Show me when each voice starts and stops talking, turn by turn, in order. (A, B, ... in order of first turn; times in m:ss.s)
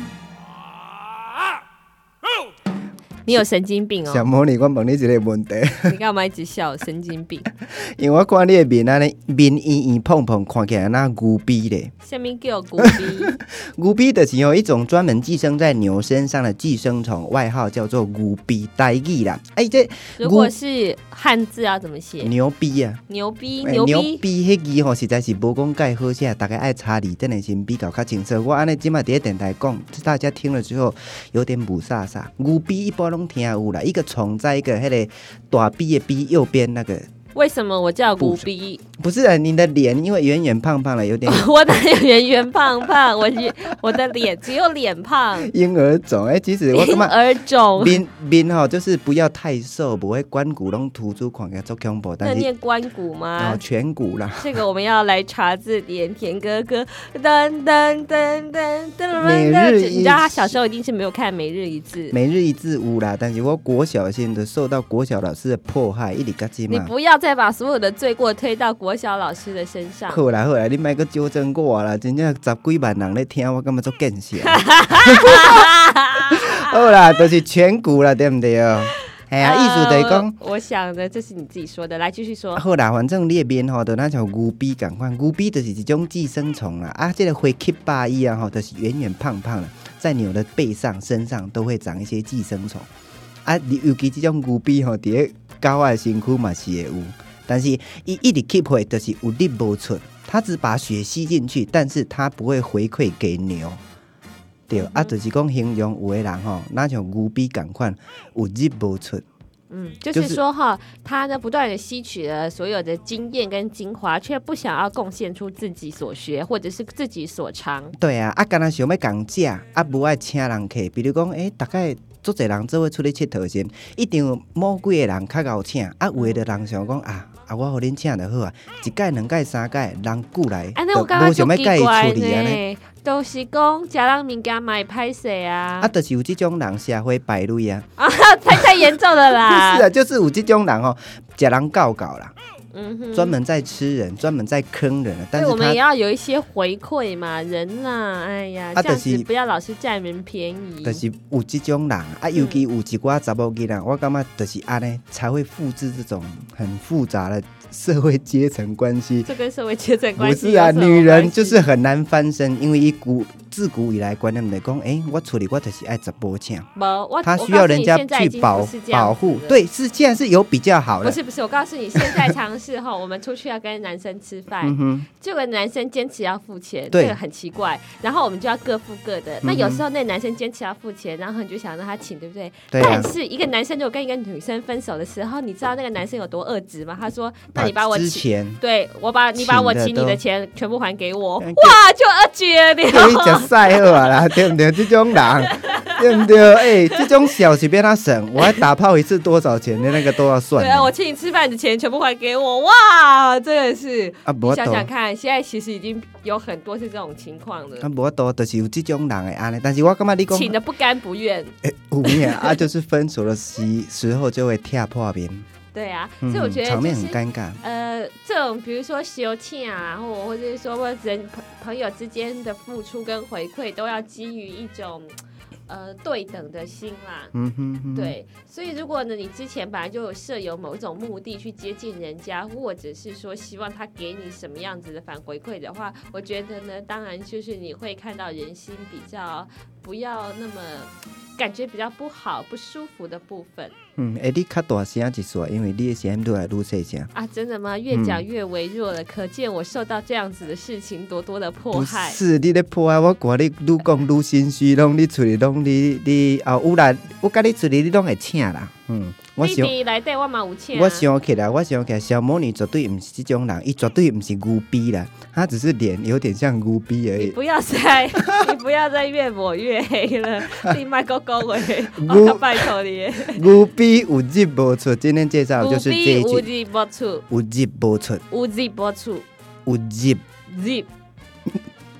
0:03.2-0:04.3 A
0:04.0-0:05.9 B
0:05.8-0:07.5 A
0:07.7-0:11.9 B
0:12.0-0:13.4 A
0:12.8-0:20.5 B
0:20.2-0:22.3 A
0:22.2-0:23.0 B
0:23.1-0:24.2 A
0:23.6-0:37.1 B
0:37.3-0:38.8 A
0:38.2-0:38.4 B
0:39.0-0:41.5 B
0:41.2-0:45.5 A
0:45.4-0:47.2 B
0:46.7-0:48.0 A
0:47.8-0:52.5 B
0:52.2-0:53.6 A
0:53.4-0:54.5 B
0:54.4-1:02.1 A
0:59.2-1:00.6 B
1:02.1-1:06.9 B
1:06.7-1:10.2 A
1:10.1-1:15.7 B
1:14.5-1:16.6 A
1:16.3-1:20.3 B
1:19.4-1:22.6 A
1:22.6-1:32.9 B
1:33.4-1:43.8 B
1:44.7-1:49.2 B
1:44.7-1:45.1 A
1:49.7-1:58.0 A
1:50.1-1:50.4 B
1:58.0-2:12.6 B
2:10.8-2:15.9 A
2:15.8-2:17.8 B
2:18.0-2:19.9 A
2:18.5-2:22.3 B
2:22.7-2:23.4 A
2:23.1-2:25.8 B
2:25.3-2:31.0 A
2:28.8-2:29.3 B
2:30.8-2:39.3 B
2:32.3-2:32.6 A
2:39.2-2:41.7 A
2:40.2-2:46.7 B
2:46.8-2:49.6 A
2:47.2-2:51.2 B
2:51.0-3:14.3 A
2:52.0-2:52.3 B
2:54.6-2:55.1 B
2:56.9-2:57.2 B
2:59.4-2:59.8 B
3:02.7-3:03.1 B
3:07.5-3:08.6 B
3:09.4-3:10.2 B
3:11.4-3:11.8 B
3:12.9-3:20.9 B
3:15.4-3:17.3 A
3:18.4-3:18.6 A
3:20.5-3:27.9 A
3:24.2-3:24.9 B
3:27.8-3:30.6 B
3:30.3-3:32.6 A
3:31.6-3:35.5 B
3:35.7-3:45.1 A
3:36.2-3:37.6 B
3:45.7-3:47.3 A
3:47.3-3:48.2 B
3:47.9-4:03.8 A
4:04.0-4:07.1 B
4:07.1-4:12.2 A
4:07.9-4:08.2 B
4:11.7-4:19.7 B
4:19.4-4:21.1 A
4:20.7-4:27.4 B
4:27.2-4:33.4 A
4:31.9-4:32.7 B
4:33.3-4:36.5 B
4:35.6-4:37.2 A
4:37.3-4:38.2 B
4:38.3-4:39.2 A
4:39.6-4:40.2 B
4:40.5-4:40.9 A